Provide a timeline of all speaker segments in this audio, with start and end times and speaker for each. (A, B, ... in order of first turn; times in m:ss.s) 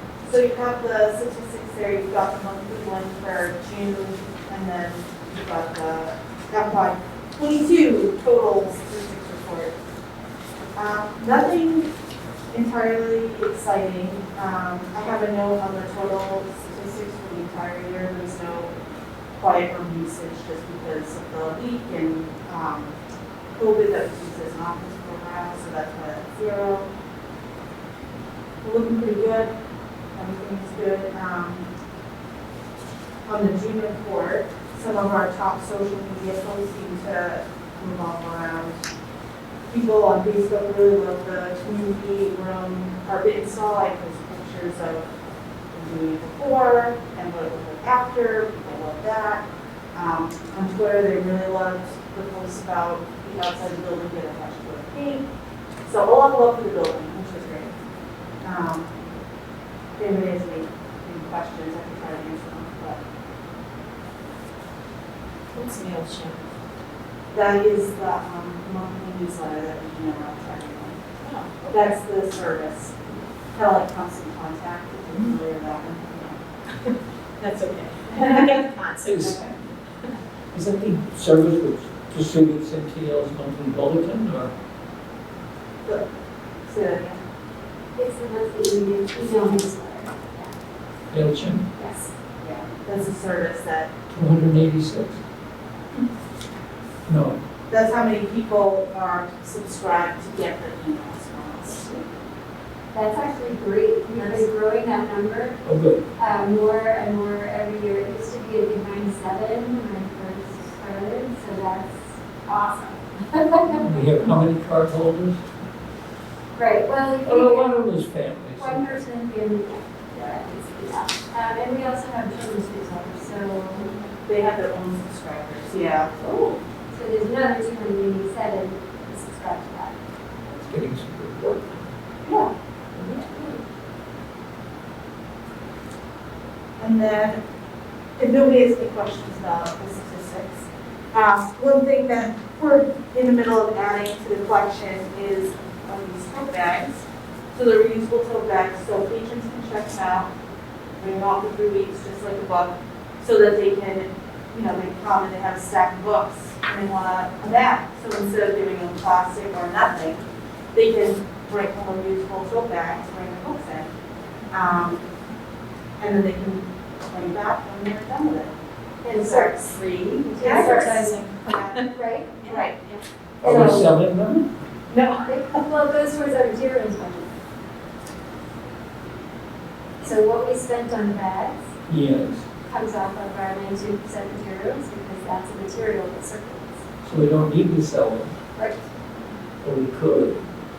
0:00.2-0:09.7 A
0:10.7-0:11.9 A
0:12.5-0:18.7 A
0:19.3-0:22.9 A
0:23.5-0:26.9 A
0:28.6-0:29.5 A
0:30.1-0:31.7 A
0:33.2-0:38.8 A
0:39.7-0:45.0 A
0:45.7-0:55.2 A
0:55.8-0:57.7 A
0:58.4-0:59.0 A
1:00.0-1:03.0 A
1:05.5-1:06.4 B
1:07.3-1:11.0 A
1:11.2-1:11.9 B
1:11.7-1:13.0 A
1:13.5-1:16.4 A
1:16.8-1:19.3 B
1:19.0-1:19.4 C
1:19.2-1:19.5 A
1:20.5-1:24.5 C
1:26.6-1:27.2 A
1:28.0-1:30.5 D
1:31.1-1:31.7 C
1:31.7-1:32.1 D
1:32.4-1:33.9 A
1:34.1-1:35.2 C
1:37.1-1:37.4 C
1:37.7-1:42.1 A
1:42.9-1:45.6 D
1:45.6-1:46.0 C
1:46.2-1:53.9 D
1:53.7-1:55.4 C
1:56.5-1:57.8 D
1:57.2-1:59.0 C
1:58.6-2:03.9 D
2:00.1-2:00.4 A
2:04.2-2:06.2 A
2:06.2-2:06.6 B
2:06.9-2:10.0 D
2:10.5-2:11.9 C
2:12.2-2:12.5 A
2:13.0-2:13.6 D
2:16.8-2:17.4 A
2:18.2-2:26.9 A
2:27.5-2:30.3 A
2:31.0-2:43.9 A
2:44.5-2:45.1 A
2:46.0-2:48.5 A
2:49.0-2:49.8 D
2:49.0-2:51.8 A
2:49.9-2:53.0 B
2:50.3-2:51.0 D
2:51.9-2:52.3 D
2:52.4-2:52.8 A
2:53.4-2:53.9 D
2:53.4-2:54.5 C
2:54.9-2:55.3 B
2:55.3-2:57.3 D
3:00.0-3:01.6 D
3:01.9-3:02.4 C
3:02.6-3:06.8 D
3:07.0-3:08.4 C
3:08.6-3:08.8 D
3:09.6-3:10.4 C